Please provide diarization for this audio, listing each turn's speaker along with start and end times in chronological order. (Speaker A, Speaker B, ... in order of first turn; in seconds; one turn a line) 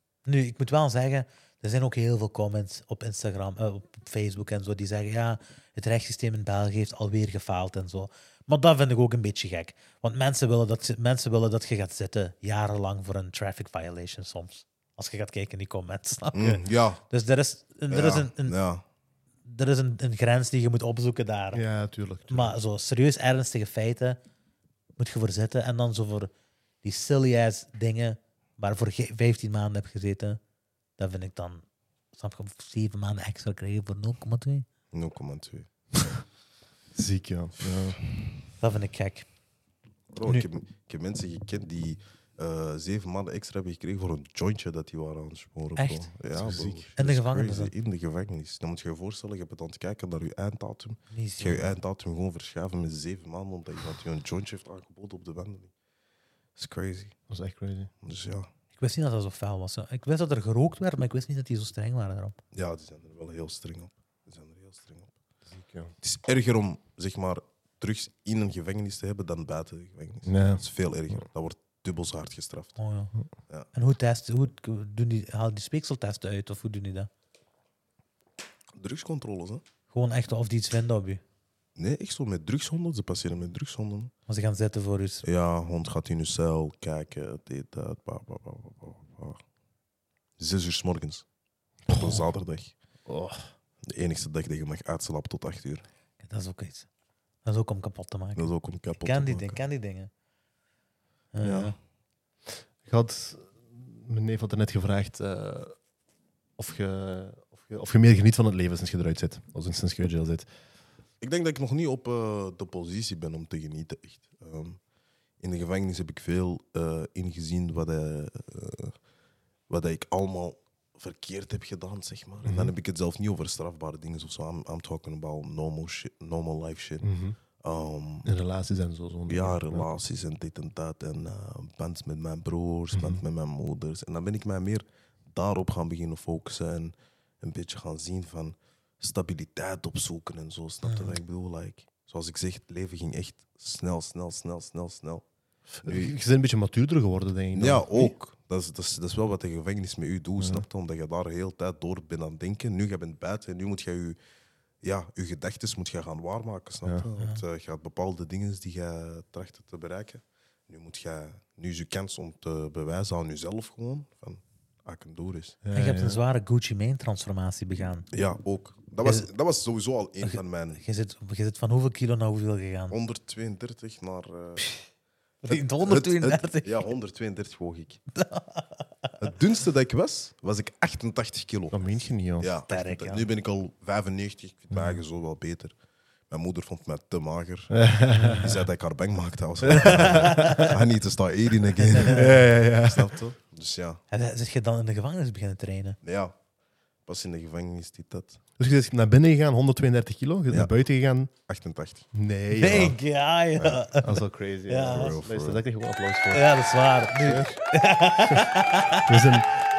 Speaker A: 0.2-18.6
Speaker B: 16.3-17.0
Speaker B: 17.9-18.8
Speaker A: 19.4-21.6
Speaker C: 21.5-22.6
Speaker A: 22.3-24.2
Speaker A: 25.0-26.3
Speaker A: 26.8-30.4
Speaker A: 31.0-31.6
Speaker A: 32.1-34.6
Speaker B: 34.9-36.2
Speaker C: 36.9-38.0
Speaker A: 38.6-39.3
Speaker B: 40.1-55.7
Speaker A: 45.8-46.1
Speaker C: 46.4-46.9
Speaker A: 47.0-47.7
Speaker A: 51.1-51.7
Speaker B: 56.5-57.1
Speaker C: 57.3-57.9
Speaker B: 58.0-58.5
Speaker A: 58.8-62.4
Speaker B: 62.5-65.1
Speaker C: 65.5-65.9
Speaker B: 66.0-72.8
Speaker C: 70.2-70.6
Speaker A: 72.8-73.1
Speaker A: 73.7-77.1
Speaker B: 78.8-79.6
Speaker A: 79.9-81.2
Speaker B: 81.8-84.1
Speaker A: 84.3-85.2
Speaker B: 85.2-89.4
Speaker B: 90.4-91.2
Speaker B: 91.9-92.7
Speaker A: 91.9-92.2
Speaker C: 93.0-93.5
Speaker B: 93.8-95.8
Speaker A: 96.2-96.9
Speaker A: 97.4-98.5
Speaker B: 98.3-99.6
Speaker A: 99.0-100.1
Speaker A: 101.3-101.7
Speaker B: 101.4-101.7
Speaker C: 102.8-105.8
Speaker C: 106.6-110.5
Speaker B: 111.2-114.8
Speaker B: 115.4-118.9
Speaker B: 119.7-127.1
Speaker C: 122.4-122.7
Speaker C: 127.0-127.3
Speaker B: 127.6-128.3
Speaker C: 128.2-129.8
Speaker B: 129.3-145.2
Speaker C: 132.9-133.2
Speaker A: 140.8-141.2
Speaker B: 145.8-146.1
Speaker C: 145.8-148.1
Speaker B: 147.5-154.2
Speaker C: 150.4-150.6
Speaker B: 154.8-165.6
Speaker C: 165.6-166.2
Speaker A: 165.7-168.1
Speaker B: 168.1-170.8
Speaker A: 170.2-172.9
Speaker B: 172.9-174.7
Speaker A: 175.4-176.8
Speaker B: 175.5-178.0
Speaker A: 178.1-178.8
Speaker B: 179.2-181.8
Speaker C: 181.7-182.5
Speaker B: 182.4-185.7
Speaker A: 182.7-183.2
Speaker C: 184.7-185.0
Speaker B: 186.3-187.8
Speaker C: 187.7-188.5
Speaker A: 188.1-188.6
Speaker B: 188.4-194.0
Speaker C: 189.6-190.7
Speaker A: 189.8-190.8
Speaker A: 191.9-192.4
Speaker C: 192.0-193.1
Speaker A: 194.1-196.0
Speaker B: 196.0-196.3
Speaker B: 197.1-198.4
Speaker C: 198.6-201.3
Speaker B: 201.4-202.1
Speaker C: 202.1-202.9
Speaker A: 202.5-205.2
Speaker C: 204.0-207.5
Speaker B: 204.8-205.6
Speaker A: 206.3-209.2
Speaker C: 209.1-209.5